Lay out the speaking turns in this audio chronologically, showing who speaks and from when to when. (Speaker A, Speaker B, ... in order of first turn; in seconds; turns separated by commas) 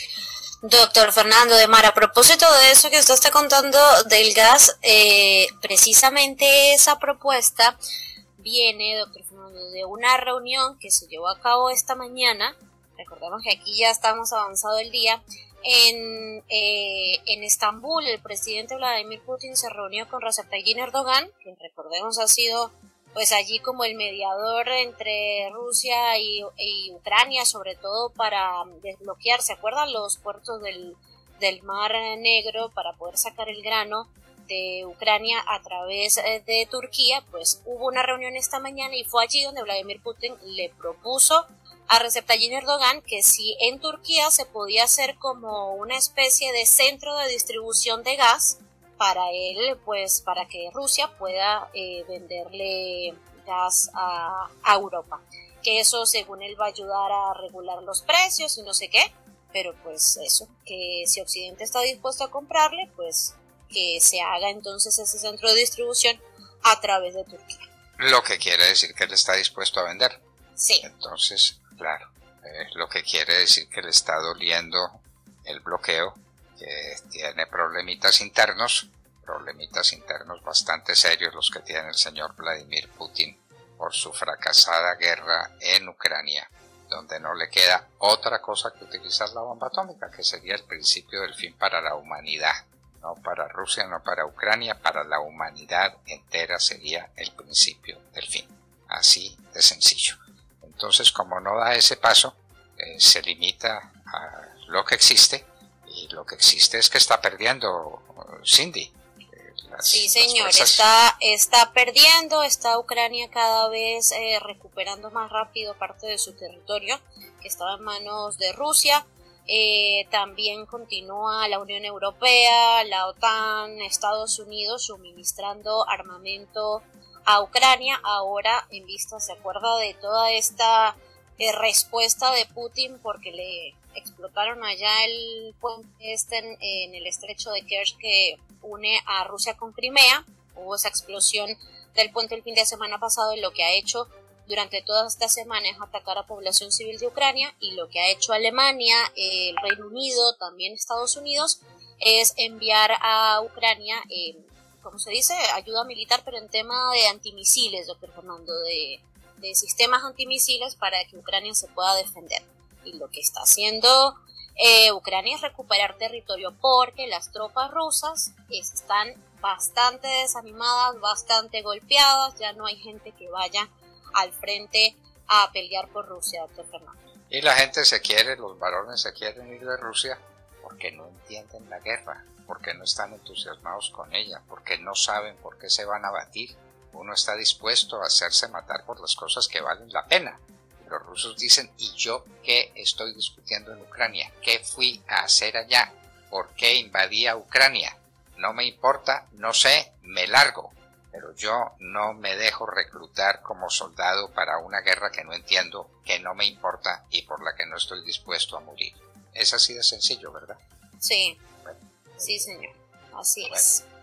Speaker A: 0.6-7.8, Speaker A: 8.4-67.6, Speaker B: 68.0-70.2, Speaker A: 70.6-70.9, Speaker B: 70.8-110.8, Speaker A: 109.9-177.0, Speaker B: 177.3-210.6, Speaker A: 211.0-211.4, Speaker B: 211.6-212.6, Speaker A: 212.2-213.8, Speaker B: 213.4-213.7